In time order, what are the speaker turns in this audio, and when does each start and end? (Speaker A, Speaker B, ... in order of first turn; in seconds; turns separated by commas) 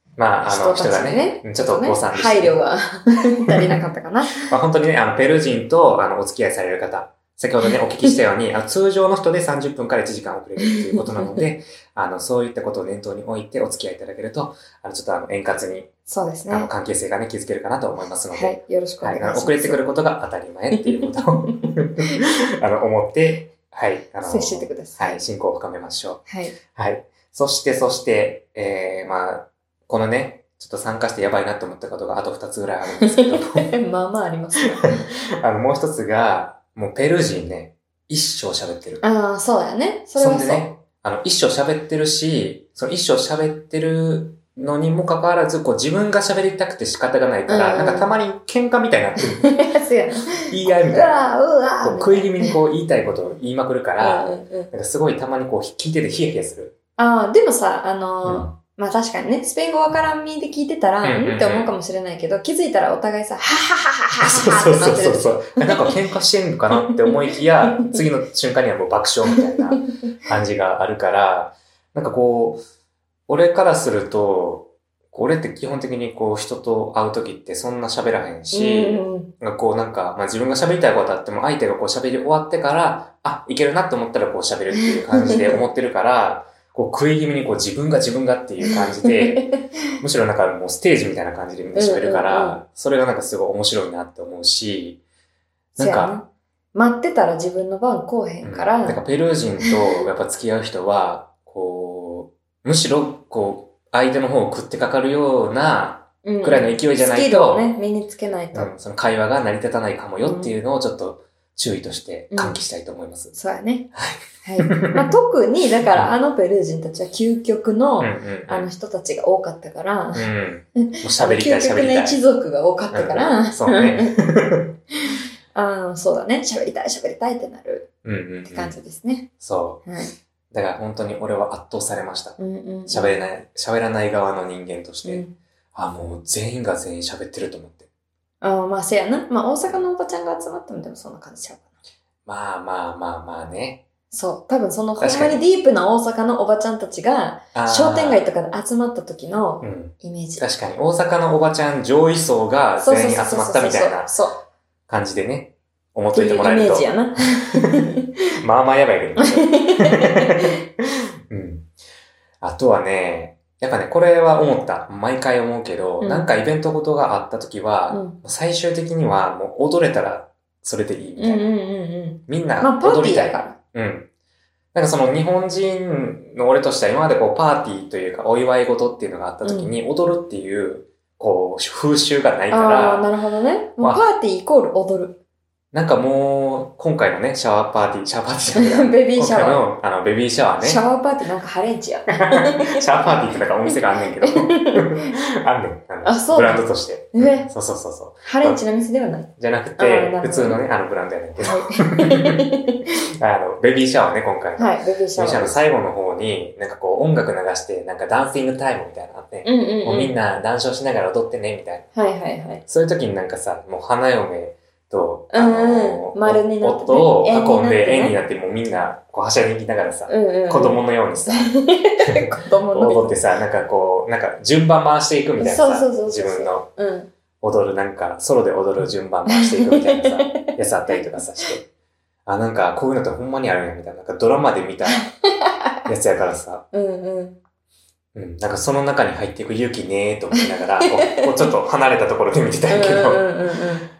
Speaker A: 0.2-2.6, Speaker B: 0.4-4.5, Speaker A: 4.4-15.9, Speaker B: 10.6-11.4, Speaker B: 16.1-16.7, Speaker A: 16.5-33.7, Speaker B: 18.3-19.8, Speaker B: 20.7-22.2, Speaker B: 24.2-25.2, Speaker B: 26.3-26.6, Speaker B: 33.0-35.1, Speaker A: 35.1-39.0, Speaker B: 39.0-40.7, Speaker A: 40.1-49.5, Speaker B: 47.5-48.1, Speaker B: 49.4-52.6, Speaker A: 50.4-51.2, Speaker A: 51.8-56.7, Speaker B: 54.0-54.7, Speaker B: 57.0-65.9, Speaker A: 58.2-58.5, Speaker A: 61.0-61.7, Speaker A: 64.2-72.6, Speaker B: 66.7-68.0, Speaker B: 69.5-70.1, Speaker A: 73.3-95.0, Speaker B: 78.5-79.3, Speaker B: 84.7-85.6, Speaker B: 88.6-89.6, Speaker B: 91.7-92.6, Speaker A: 95.7-96.2, Speaker B: 95.8-99.0, Speaker A: 98.4-107.7, Speaker B: 106.2-108.7, Speaker A: 108.5-113.3, Speaker B: 110.2-110.5, Speaker B: 112.3-112.6, Speaker B: 113.3-113.9, Speaker A: 113.9-115.1, Speaker B: 114.4-124.2, Speaker A: 115.8-116.1, Speaker A: 118.0-118.7, Speaker A: 120.1-122.2, Speaker A: 122.9-124.7, Speaker B: 125.1-127.9, Speaker A: 128.0-128.7, Speaker B: 128.4-129.3, Speaker A: 129.4-129.8, Speaker B: 129.8-130.1, Speaker A: 130.5-137.9, Speaker B: 132.4-133.2, Speaker B: 135.0-135.3, Speaker B: 138.4-141.7, Speaker A: 142.2-143.8, Speaker B: 144.1-150.4, Speaker A: 145.0-145.4, Speaker A: 147.5-148.2, Speaker A: 149.6-154.1, Speaker B: 152.8-154.4, Speaker A: 154.9-157.0, Speaker B: 156.1-158.0, Speaker A: 158.4-161.7, Speaker B: 159.2-160.5, Speaker A: 162.4-171.5, Speaker B: 166.0-166.3, Speaker B: 167.9-168.2, Speaker B: 171.2-173.6, Speaker A: 172.3-174.1, Speaker A: 174.7-183.1, Speaker B: 179.4-179.7, Speaker B: 182.5-185.2, Speaker A: 185.7-190.8, Speaker B: 188.5-189.6, Speaker B: 190.6-195.2, Speaker A: 192.2-198.6, Speaker B: 196.0-197.5, Speaker B: 198.2-200.6, Speaker A: 199.4-202.4, Speaker B: 201.4-202.9, Speaker A: 203.2-211.9, Speaker B: 204.6-205.6, Speaker B: 209.4-210.1, Speaker B: 211.9-212.6, Speaker A: 212.6-226.7, Speaker B: 215.3-218.2, Speaker B: 220.1-223.2, Speaker B: 225.4-227.1, Speaker A: 227.4-231.6, Speaker B: 229.3-230.5, Speaker A: 232.2-235.1, Speaker B: 234.9-235.8, Speaker A: 235.8-236.7, Speaker B: 236.7-237.4, Speaker A: 238.1-243.3, Speaker B: 240.8-241.5, Speaker B: 242.7-243.9